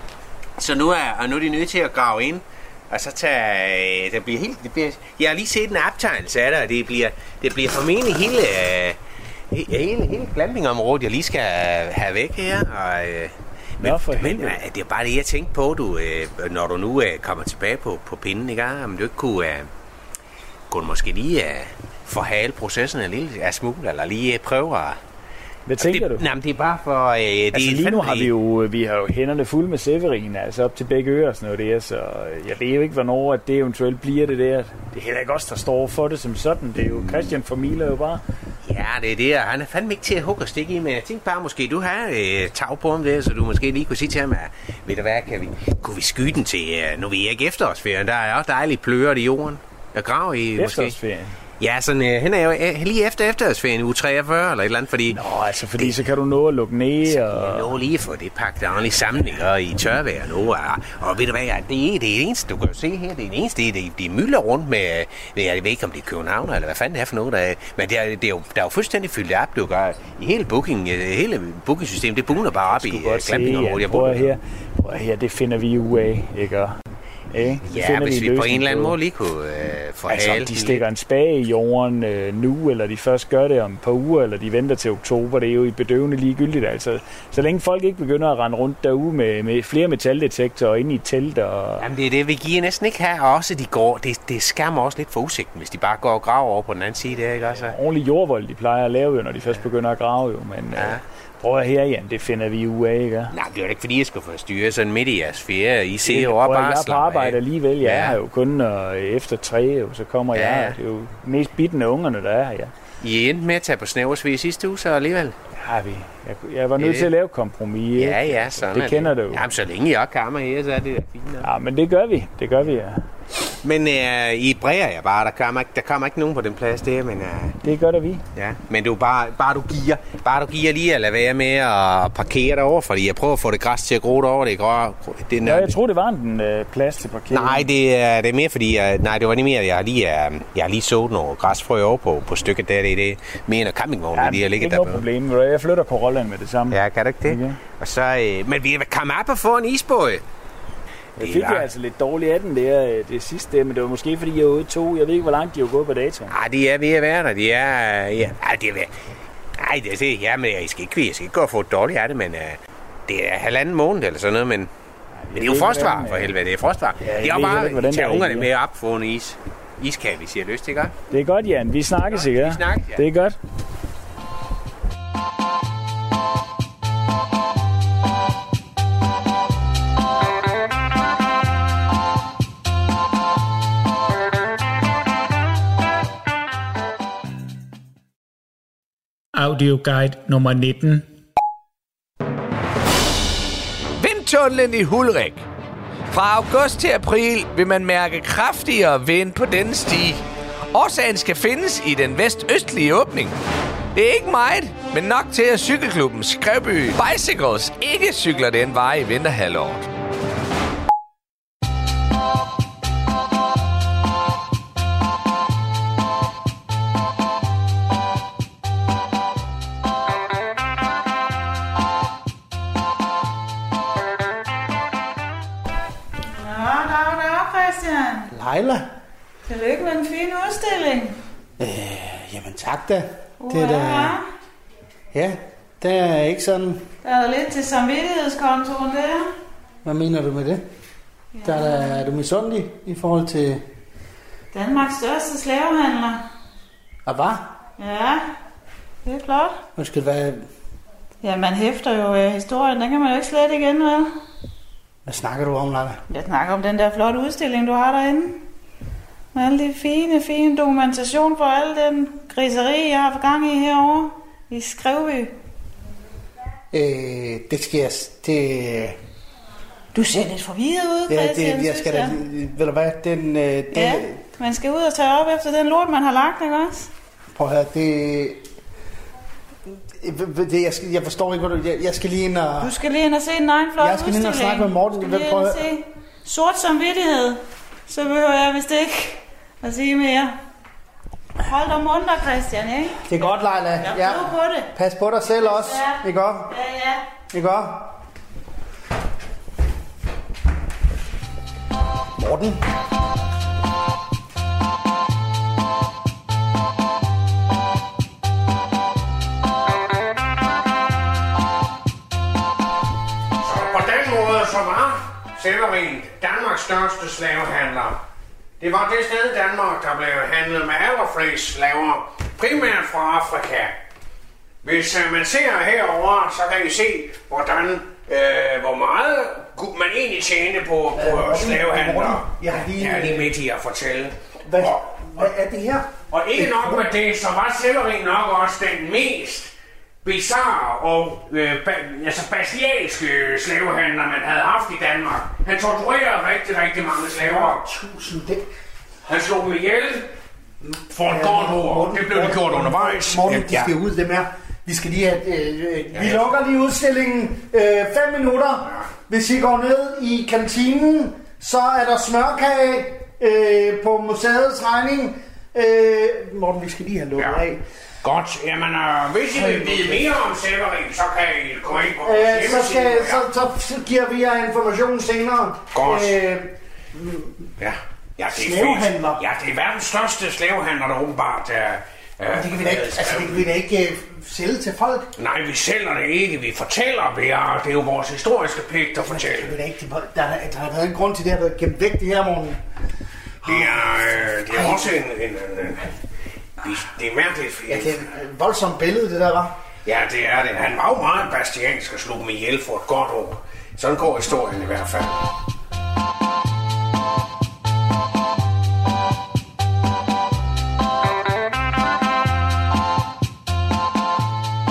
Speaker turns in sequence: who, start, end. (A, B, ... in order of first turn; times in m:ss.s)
0:00.6-0:09.0 A
0:09.5-0:19.7 A
0:13.8-0:14.6 B
0:20.7-0:25.0 A
0:25.7-0:26.2 B
0:25.8-0:28.3 A
0:27.5-0:38.2 B
0:38.6-0:51.0 A
0:50.6-0:51.4 B
0:51.6-0:55.2 A
0:55.1-0:57.7 B
0:57.1-1:14.3 A
1:12.7-1:16.8 B
1:17.3-1:19.0 B
1:17.6-1:20.8 A
1:20.1-1:31.9 B
1:31.8-1:37.8 A
1:37.5-1:43.3 B
1:40.8-1:41.0 A
1:43.3-1:48.2 A
1:46.0-1:52.7 B
1:50.3-1:50.8 A
1:53.0-1:55.4 A
1:55.6-1:59.4 B
1:56.8-1:57.1 A
1:58.0-2:01.5 A
2:01.4-2:03.0 B
2:03.6-2:07.6 A
2:07.6-2:08.2 B
2:08.4-2:15.8 A
2:15.4-2:17.7 B
2:17.3-2:25.0 A
2:24.1-2:27.6 B
2:26.7-2:30.2 A
2:31.2-2:31.7 A
2:31.2-2:36.3 B
2:36.3-2:38.9 A
2:39.6-2:44.7 A
2:45.2-2:46.4 B
2:45.3-2:50.9 A
2:47.0-2:48.5 B
2:51.1-2:53.4 B
2:52.1-2:53.0 A
3:09.4-3:11.1 B
3:14.0-3:15.4 C
3:16.1-3:20.2 C
3:20.7-3:23.4 C
3:24.0-3:29.9 C
3:46.3-3:48.3 D
3:48.3-3:48.9 E
3:49.5-3:51.2 D
3:51.6-3:54.2 E
3:53.4-3:54.2 D
3:55.1-3:56.9 E
3:57.0-3:59.3 D
3:59.8-4:00.6 E
4:01.3-4:02.1 D
4:01.4-4:03.6 E
4:04.5-4:06.2 D
4:07.1-4:07.5 E
4:07.8-4:08.2 D
4:09.0-4:09.6 D
4:09.8-4:10.4 E
4:11.2-4:14.1 D
4:15.1-4:16.0 E
4:16.1-4:18.4 D
4:19.3-4:25.4 D
4:26.7-4:29.0 E
4:29.9-4:32.2 D
4:31.1-4:34.2 E
4:33.7-4:36.9 D
4:37.4-4:38.4 E
4:39.7-4:42.7 E
4:42.6-4:50.3 D
4:43.8-4:45.6 E
4:51.4-4:53.2 D
4:53.0-4:56.6 E
4:53.8-4:54.7 D
4:55.3-4:57.0 D
4:57.3-4:58.0 E
5:02.2-5:02.6 E
5:13.4-5:18.0 F
5:18.6-5:23.8 F
5:24.6-5:35.3 F
5:31.0-5:33.3 E
5:34.4-5:36.9 E
5:36.1-5:39.5 F
5:40.0-5:47.6 F
5:47.2-5:48.5 E
5:49.1-5:50.1 F
5:50.6-6:07.6 E
5:50.9-5:53.7 F
5:56.0-5:56.2 F
6:07.2-6:07.4 F
6:08.0-6:13.2 F
6:09.3-6:10.1 E
6:12.0-6:17.4 E
6:15.7-6:16.1 F
6:17.6-6:23.4 F
6:18.3-6:19.2 E
6:22.3-6:25.1 E
6:25.2-6:29.5 F
6:29.0-6:32.6 E
6:33.4-6:33.8 E
6:33.4-6:35.9 F
6:34.5-6:34.9 E
6:36.6-6:37.9 F
6:37.7-6:39.6 E
6:39.8-6:45.2 F